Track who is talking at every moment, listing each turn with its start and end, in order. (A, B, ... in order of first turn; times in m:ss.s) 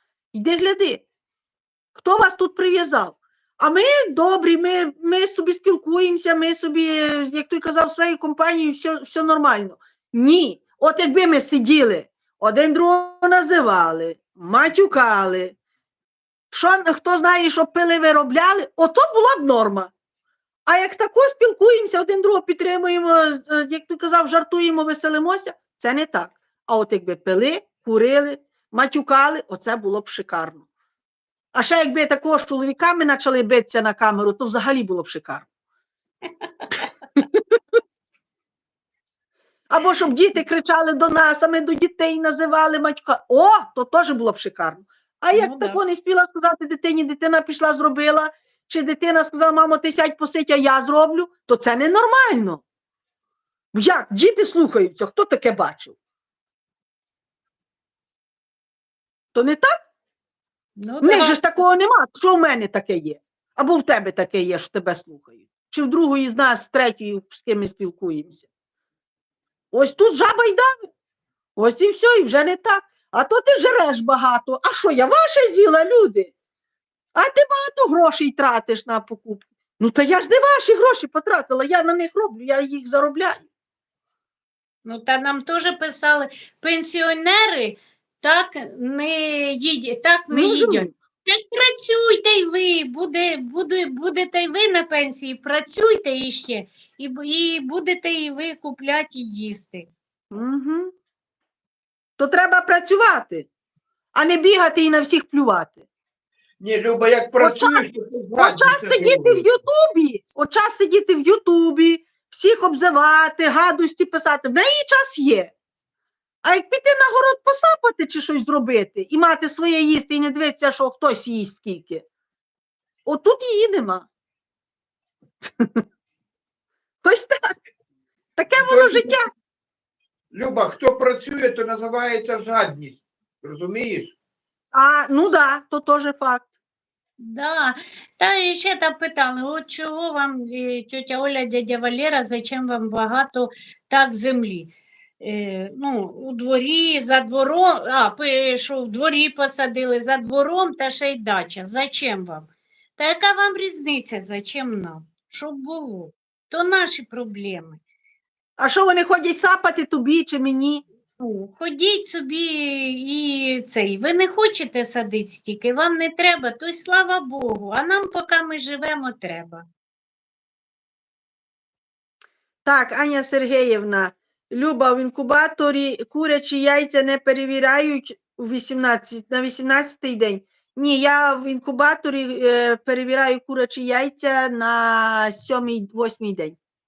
0:00.3-0:01.0 A
0:01.9-0:15.5 A
0:16.5-0:19.9 A
0:20.7-0:30.6 A
0:31.5-0:35.4 A
0:36.4-0:36.7 B
0:39.7-0:52.6 A
0:45.3-0:45.8 B
0:53.7-0:56.0 A
0:59.3-0:59.8 A
1:00.8-1:01.4 B
1:01.0-1:08.5 A
1:09.7-1:10.8 A
1:11.6-1:16.3 A
1:17.1-1:23.4 A
1:24.8-1:39.9 B
1:30.3-1:30.9 A
1:40.3-1:40.9 A
1:42.2-1:43.5 A
1:44.1-1:45.8 A
1:46.6-1:49.4 C
1:47.4-1:47.8 A
1:48.4-1:55.5 A
1:56.4-2:02.0 A
2:03.0-2:04.1 A
2:07.0-2:07.4 A
2:08.4-2:09.2 A
2:08.6-2:09.2 C
2:10.3-2:14.1 C
2:14.7-2:16.5 A
2:17.2-2:37.8 B
2:38.6-2:40.8 A
2:41.2-2:49.6 B
2:52.6-3:06.6 A